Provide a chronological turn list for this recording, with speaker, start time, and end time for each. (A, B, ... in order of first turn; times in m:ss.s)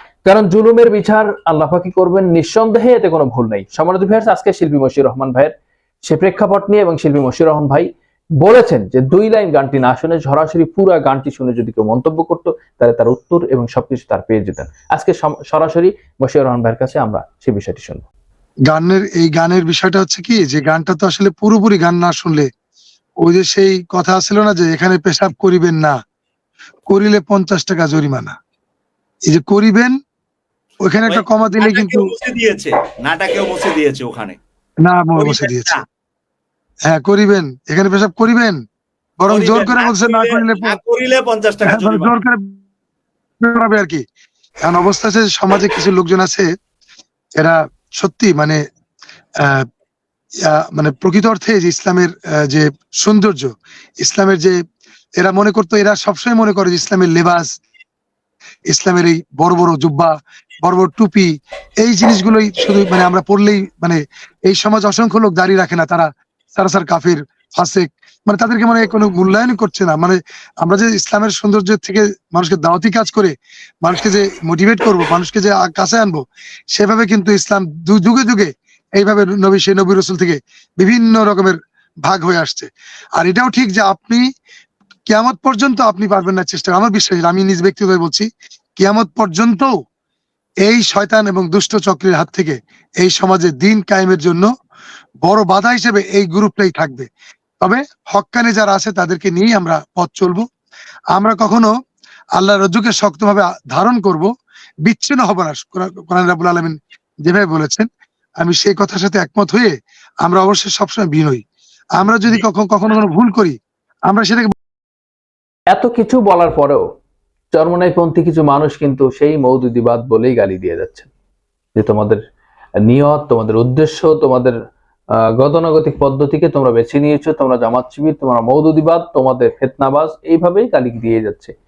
0:00.2-0:18.0 A
0:18.7-0:22.5 B
0:23.2-0:26.0 B
0:26.9-0:28.4 B
0:29.3-0:29.9 B
0:30.9-0:32.0 B
0:31.0-0:34.4 C
0:34.8-0:35.8 B
0:35.1-0:35.8 C
0:36.9-0:38.6 B
0:39.2-0:40.7 B
0:39.3-0:42.2 C
0:41.7-0:42.4 B
0:43.4-0:44.0 B
0:44.6-0:46.4 B
0:47.4-0:48.6 B
0:50.5-0:54.6 B
0:55.2-0:57.5 B
0:58.7-1:00.1 B
1:00.6-1:01.3 B
1:01.8-1:24.2 B
1:25.1-1:28.3 B
1:28.8-1:29.7 B
1:30.6-1:34.5 B
1:35.2-1:37.1 B
1:37.6-1:40.4 B
1:41.1-1:41.7 B
1:42.4-1:44.3 B
1:44.8-1:47.9 B
1:48.4-1:49.7 B
1:50.2-1:51.4 B
1:52.0-1:53.5 B
1:54.1-1:54.5 B
1:55.7-1:56.8 A
1:57.5-2:01.1 A
2:01.7-2:02.2 A
2:02.8-2:04.6 A
2:05.4-2:11.5 A